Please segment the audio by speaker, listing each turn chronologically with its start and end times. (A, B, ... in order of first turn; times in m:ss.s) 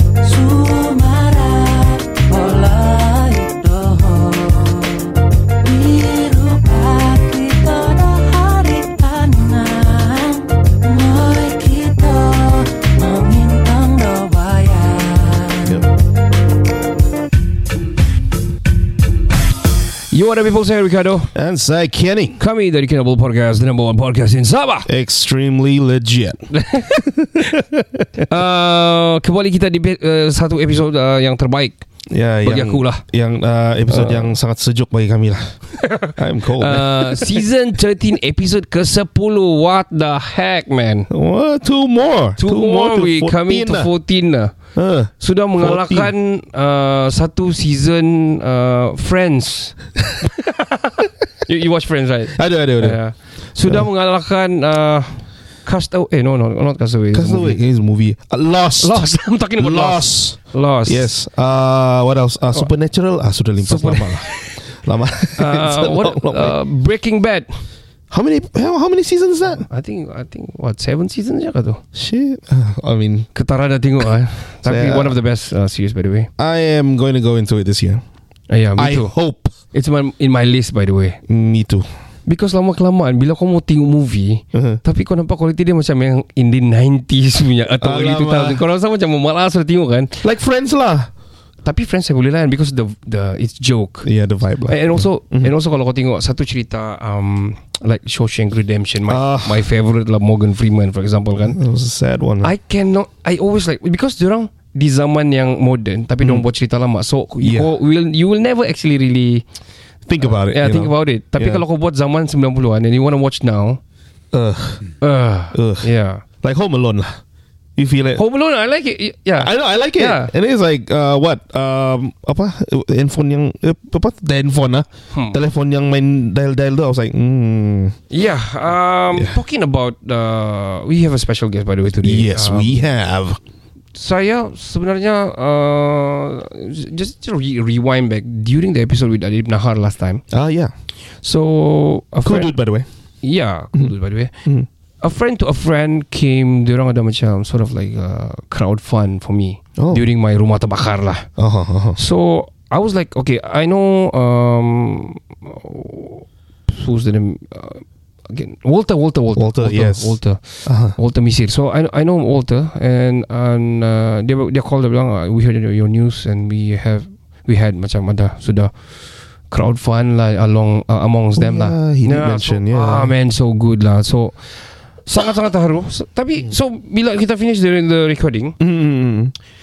0:00.3-0:04.9 A
0:00.3-0:01.3 B
0:02.4-0:02.8 B
0:03.5-0:04.5 B
0:05.6-0:15.6 B
0:06.1-0:06.9 A
0:07.6-0:10.2 A
0:13.6-0:14.8 A
0:20.1-0:21.3 A
0:21.3-0:22.4 C
0:22.4-0:24.9 A
0:24.8-0:28.1 C
0:26.5-0:27.6 A
0:28.3-0:31.8 A
0:32.1-0:37.4 C
0:32.4-0:33.0 A
0:33.9-0:34.4 A
0:35.9-0:41.1 A
0:41.1-0:43.9 C
0:42.4-0:44.5 A
0:44.7-0:46.1 C
0:45.1-0:57.6 A
0:52.3-0:53.0 C
0:57.1-1:06.6 C
0:58.8-1:01.1 A
1:03.6-1:04.5 A
1:05.4-1:07.7 A
1:08.1-1:09.7 C
1:09.7-1:11.8 A
1:11.9-1:13.3 C
1:13.3-1:16.3 A
1:14.6-1:15.2 C
1:16.4-1:18.0 C
1:18.5-1:19.2 A
1:18.8-1:19.5 C
1:19.7-1:21.2 A
1:21.3-1:21.8 C
1:22.2-1:30.2 A
1:24.5-1:24.8 C
1:27.8-1:28.6 C
1:30.2-1:31.1 C
1:31.6-1:34.1 A
1:34.0-1:35.5 C
1:34.6-1:41.6 A
1:39.1-1:39.7 C
1:41.4-1:42.5 C
1:42.4-1:49.4 A
1:46.2-1:46.4 C
1:47.4-1:47.7 C
1:50.1-1:51.6 C
1:50.2-1:53.8 A
1:54.3-1:54.8 C
1:55.0-1:56.2 A
1:55.5-1:55.9 C
1:56.4-1:57.2 C
1:57.8-1:58.2 C
1:58.1-2:00.3 A
1:59.4-2:08.0 C
2:05.1-2:05.4 A
2:08.1-2:12.8 A
2:09.1-2:09.4 C
2:11.9-2:13.4 C
2:13.9-2:20.2 A
2:20.3-2:20.7 C
2:20.9-2:22.6 A
2:22.2-2:22.9 C
2:23.2-2:24.4 A
2:23.7-2:24.7 C
2:25.0-2:31.3 A
2:29.8-2:30.1 C
2:31.4-2:32.0 C
2:31.9-2:58.6 A
2:39.3-2:41.0 C
2:51.4-2:53.1 C
2:58.6-2:59.3 C